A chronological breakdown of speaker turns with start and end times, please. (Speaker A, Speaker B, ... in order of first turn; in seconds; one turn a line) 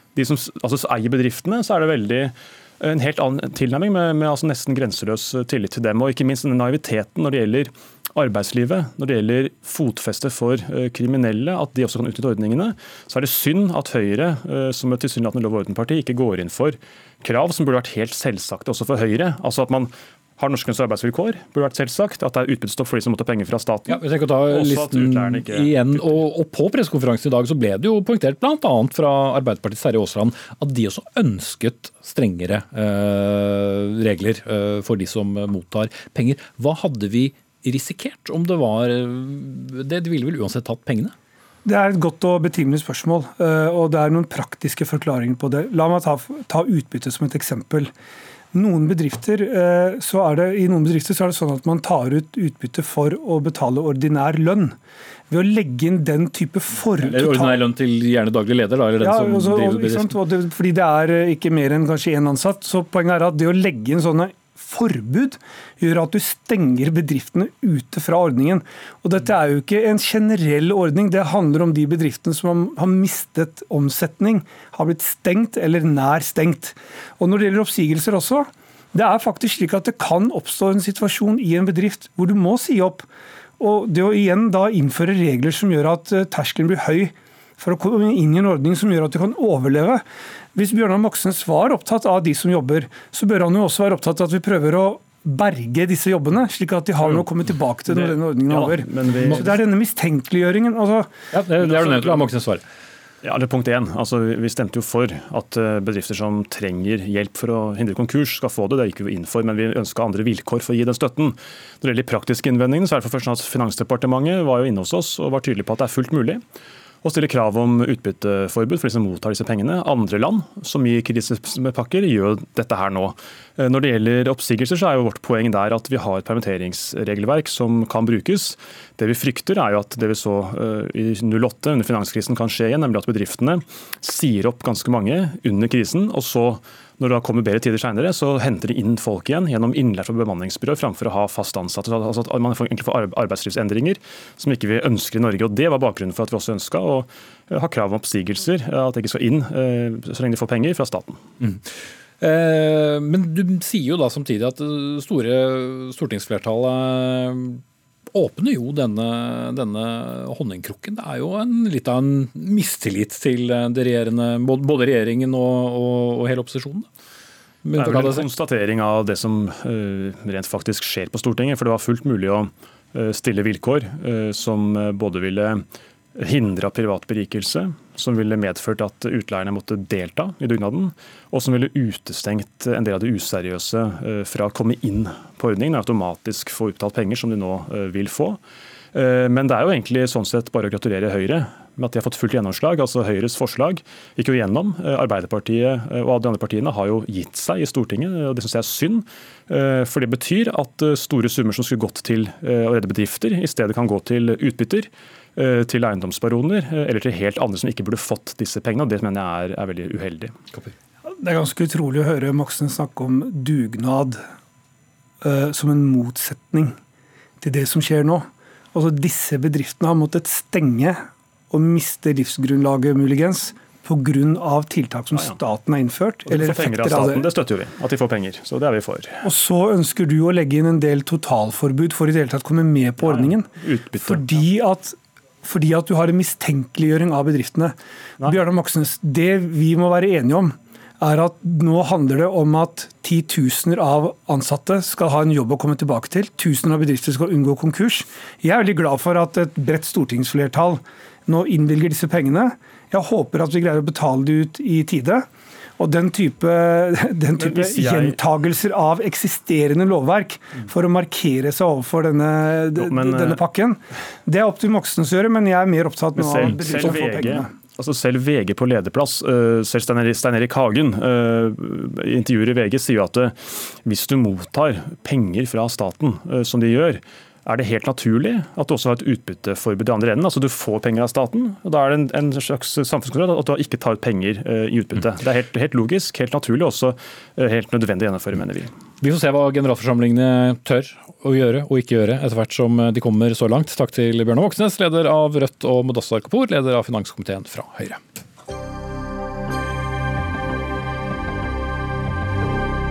Speaker A: 0.1-26.2
Speaker B: 23.9-41.1
Speaker C: 41.6-47.9
Speaker C: 48.5-54.8
Speaker C: 55.3-57.6
Speaker B: 57.0-60.2
Speaker C: 59.0-83.1
Speaker C: 83.6-90.0
Speaker C: 90.5-101.1
Speaker A: 97.0-99.7
Speaker B: 101.3-102.6
Speaker A: 101.7-102.3
Speaker A: 103.2-116.4
Speaker A: 117.0-151.2
Speaker B: 152.2-157.6
Speaker B: 158.1-166.9
Speaker B: 167.6-168.3
Speaker A: 167.8-175.6
Speaker A: 176.2-188.4
Speaker A: 188.9-210.3
Speaker C: 211.2-214.2
Speaker C: 215.2-216.8
Speaker C: 217.4-227.3
Speaker A: 225.1-225.4
Speaker A: 226.2-229.2
Speaker C: 229.2-255.3
Speaker A: 233.0-234.5
Speaker C: 255.8-267.5
Speaker A: 257.4-258.2
Speaker A: 262.8-263.4
Speaker A: 266.1-288.7
Speaker B: 289.0-298.0